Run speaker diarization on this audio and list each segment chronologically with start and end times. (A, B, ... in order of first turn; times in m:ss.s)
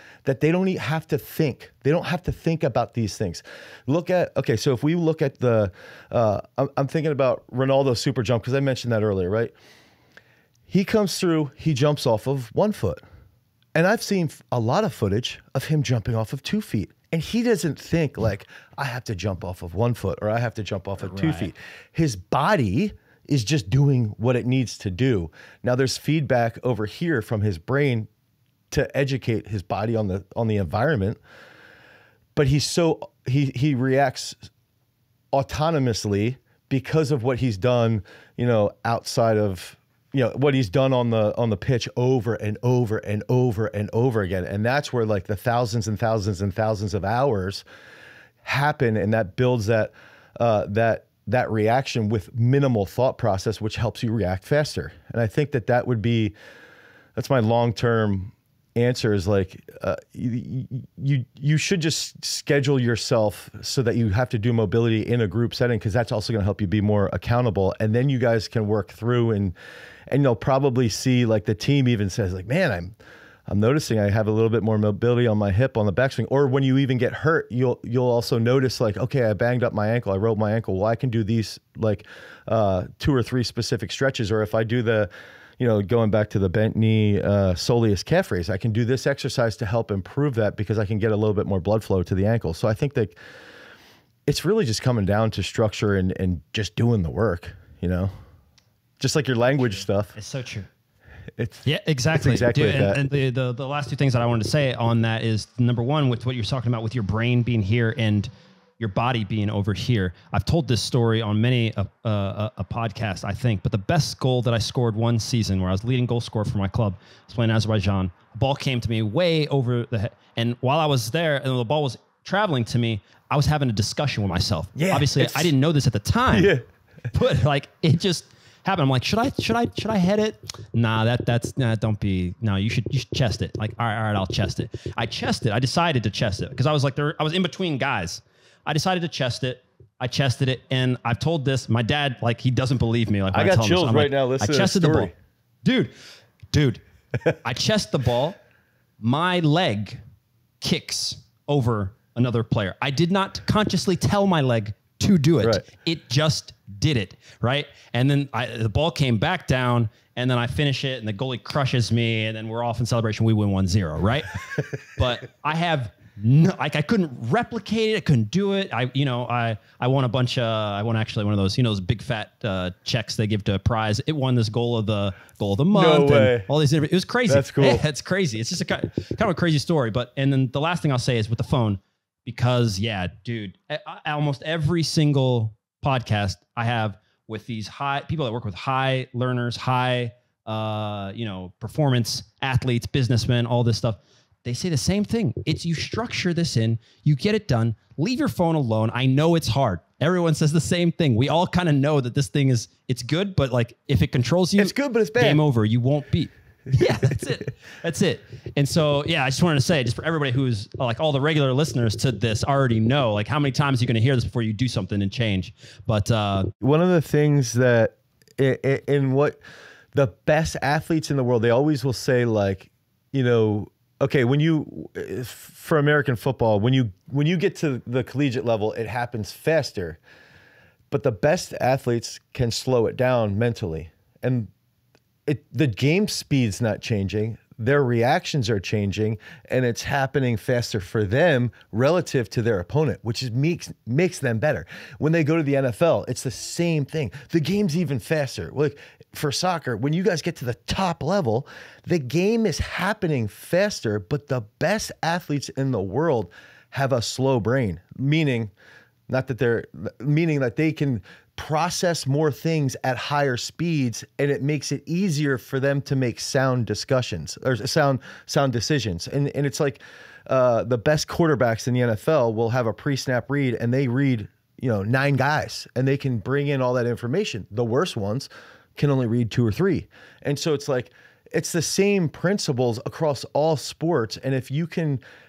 0:00.2-0:09.5 A
0:10.7-0:13.0 A
0:13.8-0:28.1 A
0:21.0-0:21.5 B
0:28.7-0:31.2 A
0:32.4-0:34.4 A
0:35.3-0:47.6 A
0:48.4-0:56.3 A
0:57.2-1:09.5 A
1:10.1-1:12.9 A
1:13.5-1:33.2 A
1:34.3-1:38.1 A
1:39.0-1:40.2 A
1:39.7-1:40.7 B
1:41.4-1:43.0 A
1:41.6-2:06.5 B
2:04.8-2:05.5 A
2:06.3-2:06.6 A
2:07.1-2:25.1 B
2:23.3-2:25.1 A
2:25.6-2:25.9 B
2:26.5-2:26.8 B
2:27.4-2:28.4 B
2:29.0-2:30.0 B
2:30.6-3:36.5 B
2:55.7-2:56.5 A
2:57.3-2:57.8 A
3:24.6-3:25.4 A
3:36.6-3:39.4 A
3:39.9-3:50.0 A
3:50.9-3:54.5 A
3:55.3-4:18.5 A
4:19.1-4:45.0 A